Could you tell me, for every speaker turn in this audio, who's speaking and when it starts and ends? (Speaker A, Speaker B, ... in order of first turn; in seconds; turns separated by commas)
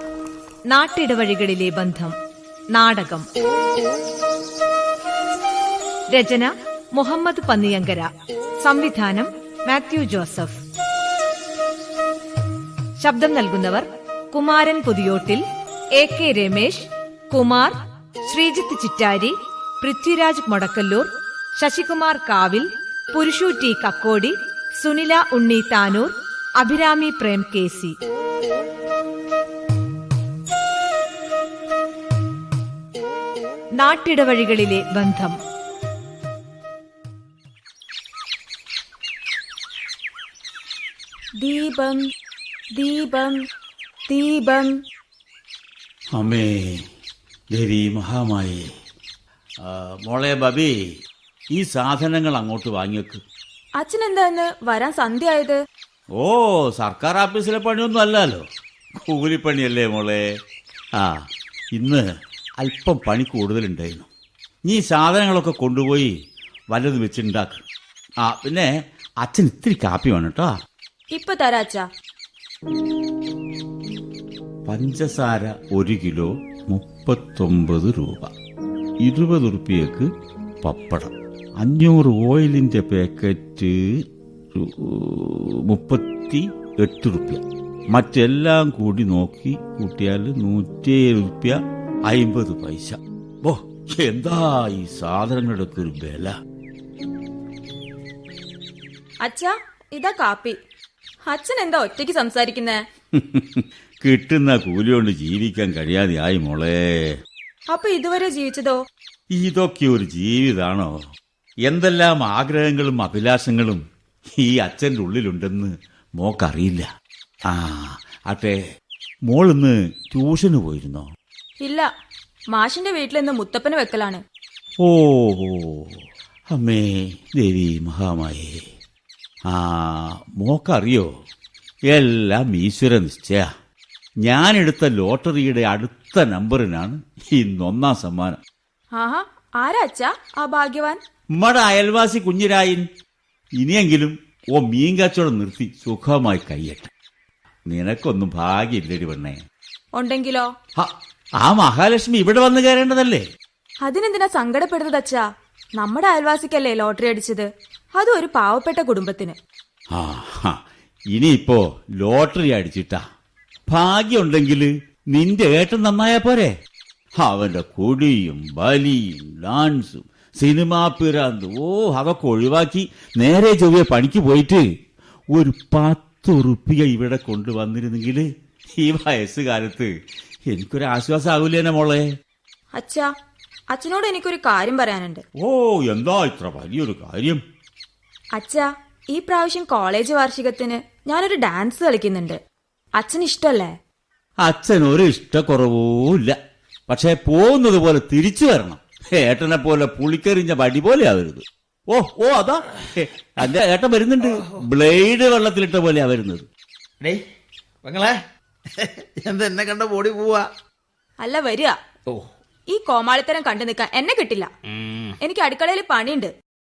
Speaker A: 0.7-2.1, Speaker A: 2.7-3.2, Speaker A: 6.1-8.1, Speaker A: 8.6-10.6, Speaker A: 13.0-15.4, Speaker A: 15.9-17.7, Speaker A: 18.3-27.9, Speaker A: 33.8-35.3, Speaker B: 41.4-42.0, Speaker B: 42.8-43.4, Speaker B: 44.1-44.7, Speaker C: 46.1-46.9, Speaker C: 47.5-48.6, Speaker C: 49.6-50.7, Speaker C: 51.5-53.2, Speaker B: 53.8-55.6, Speaker C: 56.1-58.4, Speaker C: 59.0-60.2, Speaker C: 61.0-62.0, Speaker C: 62.6-64.1, Speaker C: 64.7-66.1, Speaker C: 66.7-67.6, Speaker C: 68.2-68.7, Speaker C: 69.2-70.5, Speaker B: 71.1-71.8, Speaker C: 74.7-78.3, Speaker C: 79.0-80.1, Speaker C: 80.6-83.8, Speaker C: 84.5-96.3, Speaker B: 99.2-100.6, Speaker B: 101.3-102.8, Speaker C: 103.1-107.1, Speaker B: 107.7-108.8, Speaker C: 109.3-110.9, Speaker C: 111.6-113.8, Speaker C: 114.3-116.9, Speaker C: 117.5-118.6, Speaker C: 119.3-121.1, Speaker B: 121.6-121.9, Speaker B: 122.5-124.2, Speaker C: 124.8-126.0, Speaker C: 126.5-128.6, Speaker C: 129.5-131.1, Speaker C: 131.9-133.5, Speaker C: 134.2-138.4, Speaker B: 138.9-141.0, Speaker C: 141.4-142.9, Speaker C: 143.6-146.9, Speaker C: 147.7-149.4, Speaker B: 149.9-150.5, Speaker C: 150.8-153.2, Speaker B: 153.8-155.2, Speaker B: 155.8-159.4, Speaker C: 159.9-160.6, Speaker C: 161.1-163.0, Speaker C: 163.7-166.5, Speaker C: 167.2-174.6, Speaker C: 175.3-178.3, Speaker C: 178.8-179.9, Speaker C: 180.5-182.0, Speaker B: 182.8-183.1, Speaker B: 183.7-185.2, Speaker C: 185.4-187.4, Speaker B: 188.3-192.4, Speaker B: 193.0-193.7, Speaker C: 194.4-196.4, Speaker C: 196.9-206.4, Speaker D: 204.2-204.6, Speaker D: 207.8-208.2, Speaker D: 208.8-210.5, Speaker B: 211.2-211.8, Speaker B: 212.7-214.5, Speaker D: 214.7-215.2, Speaker B: 215.2-216.3